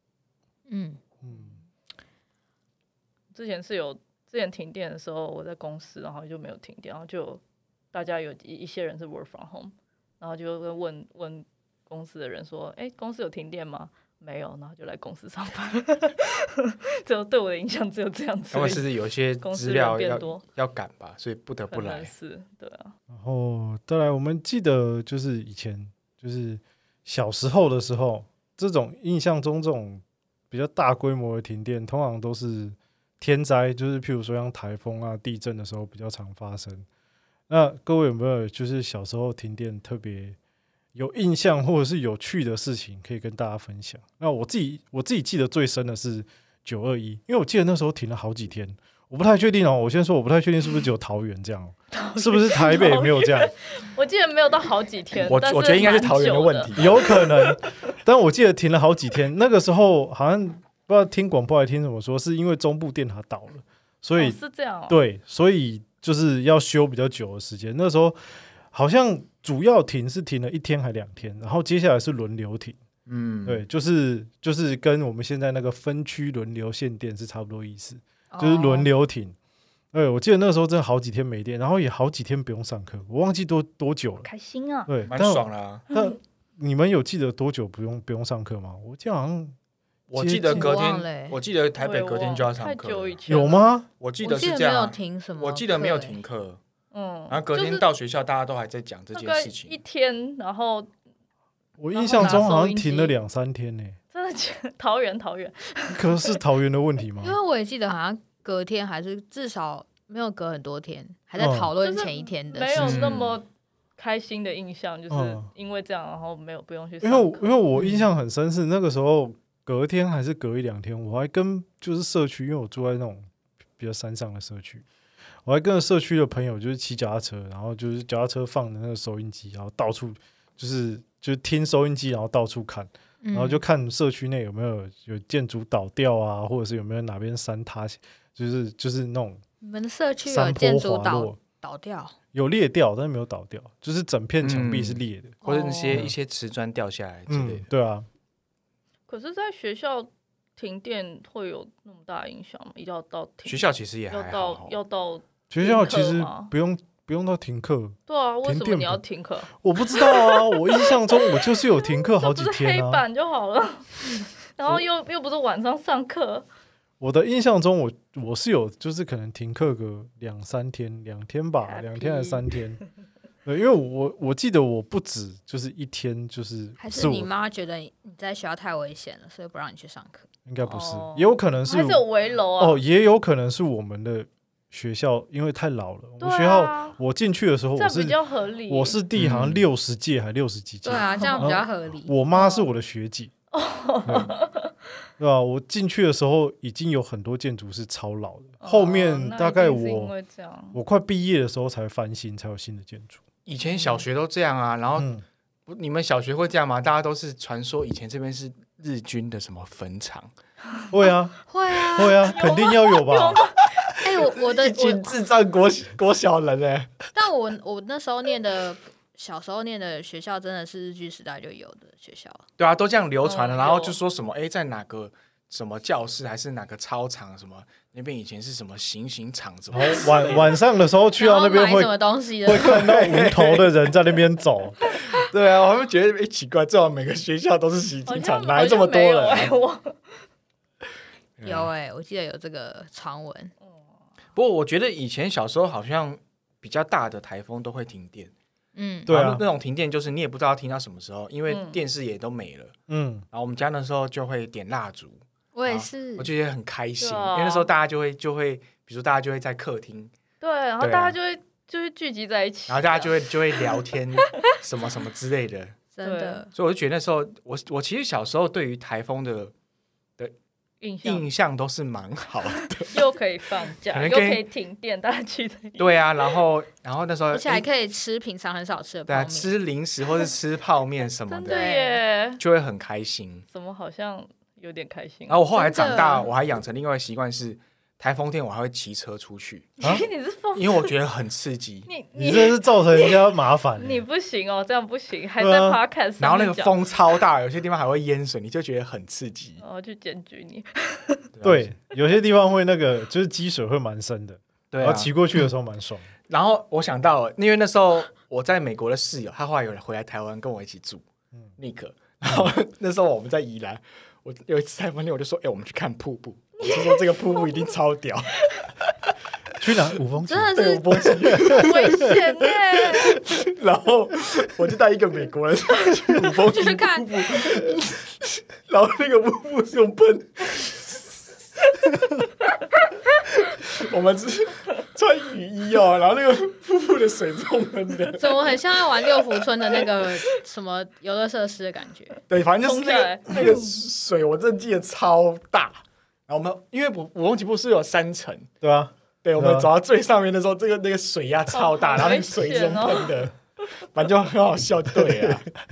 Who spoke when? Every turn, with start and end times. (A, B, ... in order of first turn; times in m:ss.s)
0:00.7-0:01.0 A
0:01.2-0:01.6 B
0:03.3-0:07.4 C
0:07.9-0:20.4 C
0:18.5-0:22.1 D
0:21.7-0:22.9 C
0:23.1-0:36.9 B
0:37.5-0:40.4 B
0:41.0-0:53.5 B
0:51.9-0:57.6 C
0:55.2-0:57.2 D
0:56.8-1:12.8 B
1:04.2-1:05.0 C
1:13.1-1:13.6 D
1:13.5-1:19.4 B
1:18.3-1:18.9 A
1:19.9-1:24.3 B
1:24.2-1:24.9 C
1:24.9-1:29.6 B
1:25.1-1:25.8 D
1:30.1-1:33.2 D
1:30.2-1:31.0 B
1:30.5-1:31.4 A
1:31.8-1:33.6 C
1:33.3-1:33.9 B
1:34.0-1:36.6 D
1:34.2-1:36.2 A
1:36.9-1:37.9 C
1:37.3-1:39.8 D
1:39.1-1:40.9 C
1:41.8-1:44.0 B
1:41.9-1:43.2 C
1:44.1-1:46.4 C
1:45.9-1:47.4 B
1:47.2-1:53.0 A
1:51.4-1:51.7 B
1:51.8-1:53.5 C
1:52.8-1:53.4 D
1:54.0-1:57.5 C
1:55.1-1:55.5 B
1:57.0-2:04.8 B
1:57.8-1:58.0 A
2:05.4-2:19.4 B
2:13.2-2:13.6 A
2:19.6-2:22.1 A
2:20.3-2:21.4 B
2:22.3-2:25.4 B
2:24.4-2:27.6 D
2:25.4-2:26.1 A
2:27.3-2:28.1 B
2:29.1-2:36.5 C
2:33.5-2:34.8 D
2:35.5-2:39.0 B
2:38.1-2:46.5 C
2:39.6-2:43.0 B
2:47.0-2:52.8 B
2:51.6-2:52.6 C
2:53.4-2:57.3 B
2:56.8-3:00.3 A
3:00.5-3:02.0 B
3:00.6-3:02.8 C
3:02.6-3:13.3 B
3:06.2-3:07.0 C
3:07.8-3:09.0 C
3:09.2-3:09.6 D
3:10.8-3:12.1 A
3:11.2-3:11.6 C
3:12.3-3:12.7 C
3:13.5-3:14.8 C
3:14.1-3:14.3 B
3:15.2-3:20.1 B
3:18.6-3:20.8 C
3:20.7-3:23.2 B
3:23.4-3:25.1 D
3:25.0-3:25.2 B
3:25.7-3:30.3 D
3:30.9-3:33.4 B
3:31.5-3:32.4 A
3:32.2-3:33.6 C
3:33.8-3:37.0 D
3:34.0-3:35.1 A
3:37.1-3:42.4 A
3:42.6-3:50.6 D
3:43.2-3:44.0 C
3:49.7-3:54.8 B
3:51.2-3:52.8 A
3:52.6-3:53.7 D
3:54.9-3:59.5 D
3:58.1-4:00.2 C
4:01.4-4:01.7 D
4:01.4-4:03.5 A
4:04.4-4:08.3 D
4:08.8-4:09.1 A
4:09.1-4:09.4 B
4:09.1-4:12.8 D
4:11.5-4:11.8 C
4:12.9-4:13.2 B
4:13.3-4:20.1 D
4:15.5-4:16.3 A
4:17.0-4:17.7 C
4:20.4-4:24.4 C
4:20.8-4:21.2 D
4:22.7-4:25.8 D
4:25.9-4:26.5 A
4:26.0-4:26.4 C
4:26.5-4:29.5 D
4:30.8-4:31.2 C
4:31.0-4:33.0 D
4:32.8-4:36.4 C
4:33.9-4:34.4 D
4:35.8-4:37.7 D
4:37.3-4:39.5 A
4:39.1-4:43.5 D
4:41.3-4:42.4 C
4:41.5-4:41.9 A
4:43.5-4:45.5 C
4:45.3-4:49.8 D
4:45.5-4:46.3 A
4:49.8-4:50.9 C
4:50.6-4:51.9 D
4:51.9-4:56.8 C
4:52.2-4:54.0 B
4:55.4-4:55.8 B
4:56.2-4:59.6 D
4:59.6-5:01.3 C
5:01.3-5:01.7 D
5:01.4-5:06.1 B
5:04.7-5:05.5 D
5:06.3-5:11.0 D
5:11.6-5:18.5 D
5:12.2-5:12.5 B
5:16.6-5:17.6 C
5:19.6-5:21.7 B
5:20.2-5:21.2 A
5:20.5-5:31.0 D
5:21.5-5:23.2 C
5:26.4-5:27.3 A
5:33.3-5:38.6 D
5:38.2-5:42.2 A
5:42.3-5:48.5 D
5:42.6-5:43.7 C
5:48.6-5:49.7 B
5:49.2-5:55.5 D
5:51.5-5:53.3 C
5:55.0-5:55.4 B